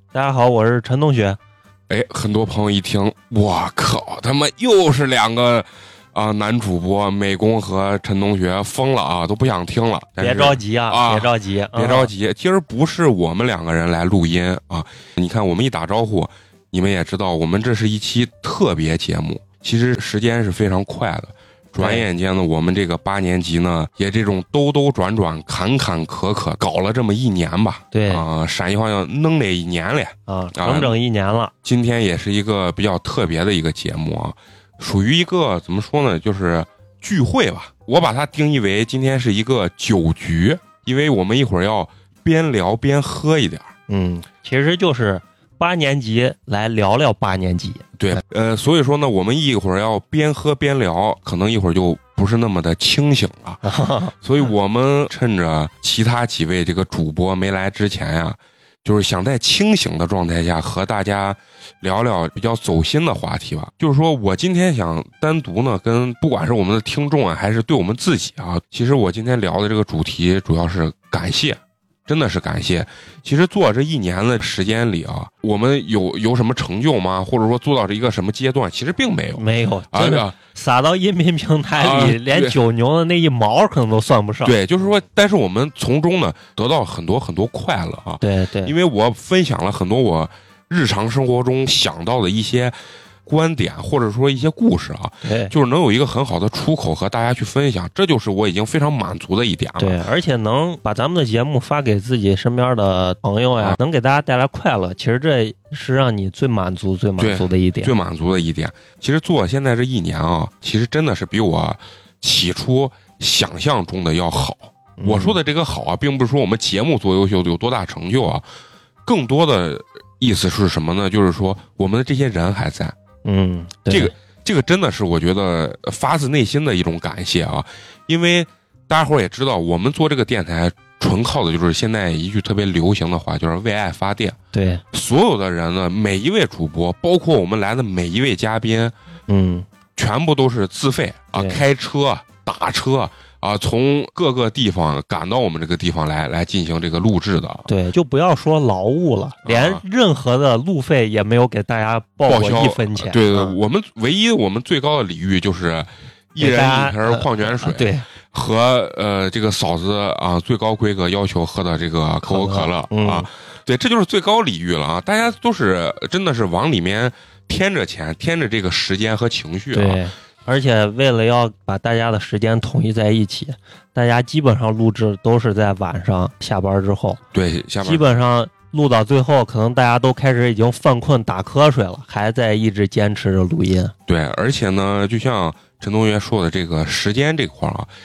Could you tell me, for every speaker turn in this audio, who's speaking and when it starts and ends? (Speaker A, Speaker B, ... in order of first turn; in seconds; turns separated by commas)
Speaker A: 0.1-1.4, Speaker B: 1.9-31.0, Speaker A: 10.2-12.1, Speaker A: 21.8-22.1, Speaker A: 27.9-28.3, Speaker A: 30.3-31.5, Speaker B: 31.6-43.7, Speaker A: 43.9-48.2, Speaker B: 48.0-53.6, Speaker A: 53.6-54.1, Speaker B: 54.2-80.3, Speaker A: 79.4-84.6, Speaker B: 81.8-82.6, Speaker B: 84.4-100.0, Speaker A: 88.2-88.7, Speaker A: 95.2-95.5, Speaker A: 99.8-107.9, Speaker B: 107.2-118.5, Speaker A: 115.0-115.4, Speaker B: 119.1-123.0, Speaker A: 123.2-124.1, Speaker B: 123.9-134.4, Speaker A: 134.5-134.8, Speaker B: 134.9-138.9, Speaker A: 139.3-139.7, Speaker B: 140.0-147.7, Speaker A: 141.3-141.6, Speaker A: 147.7-153.6, Speaker B: 149.4-149.8, Speaker B: 152.2-170.0, Speaker A: 156.4-158.1, Speaker A: 162.3-163.3, Speaker A: 169.7-177.2, Speaker B: 177.3-178.1, Speaker A: 177.8-183.9, Speaker B: 184.1-187.9